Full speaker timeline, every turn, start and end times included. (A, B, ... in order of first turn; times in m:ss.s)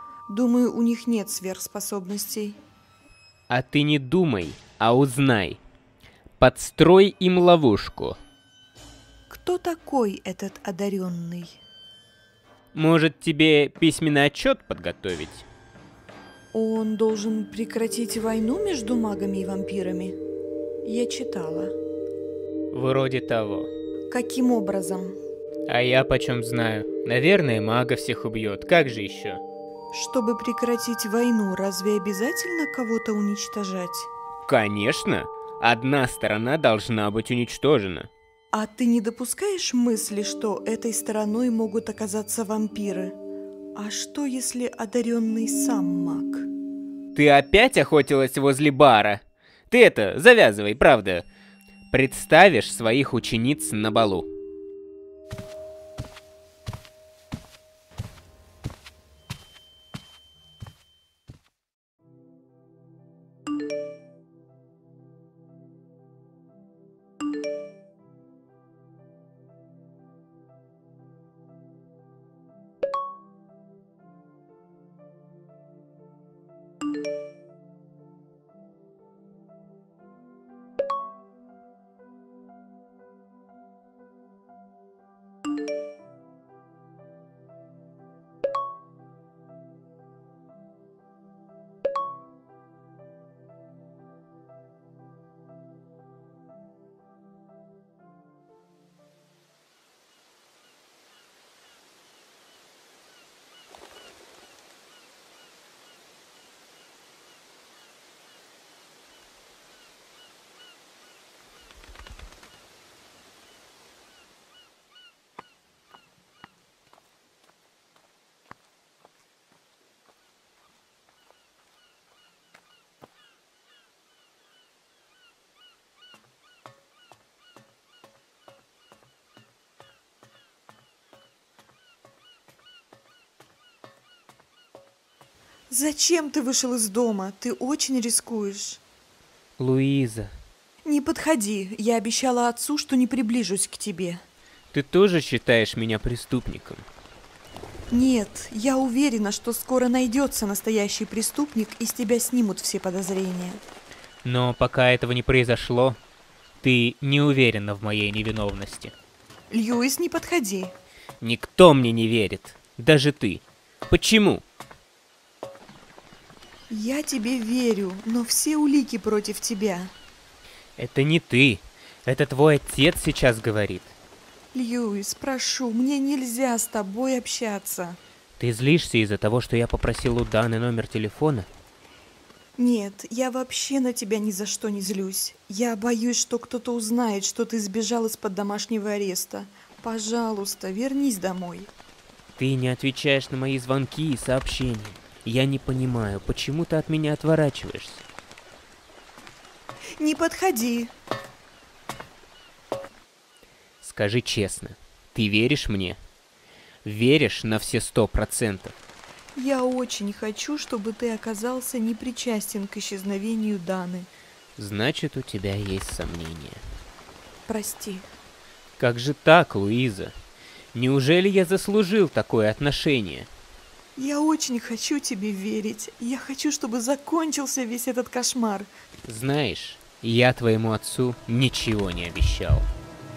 0:00.3-0:02.6 A
0:03.5-0:05.6 B
0:06.4-0:08.2 B
0:09.3-0:11.6 A
0:12.7-0:15.5 B
0:16.5-0:20.2 A
0:20.8-0:21.7 A
0:22.7-0:23.7 B
0:24.1-0:25.1 A
0:25.7-0:29.4 B
0:29.9-0:34.1 A
0:34.5-0:38.1 B
0:38.5-0:43.2 A
0:43.8-0:46.5 A
0:47.1-0:51.3 B
0:51.9-0:54.3 B
2:15.7-2:18.8 A
2:19.6-2:20.3 B
2:20.8-2:24.2 A
2:24.7-2:26.8 B
2:27.9-2:33.6 A
2:34.2-2:36.0 B
2:36.6-2:38.9 B
2:39.5-2:40.7 A
2:41.2-2:44.4 B
2:46.7-2:49.9 A
2:50.8-2:54.0 B
2:54.5-2:58.0 A
2:58.4-3:01.5 B
3:02.6-3:11.7 A
3:12.4-3:18.0 B
3:20.0-3:20.9 A
3:23.8-3:26.0 B
3:26.8-3:28.8 B
3:29.4-3:34.1 A
3:34.6-3:36.6 B
3:37.5-3:38.1 A
3:38.8-3:40.1 B
3:40.7-3:43.3 B
3:44.0-3:48.7 A
3:49.1-3:52.7 B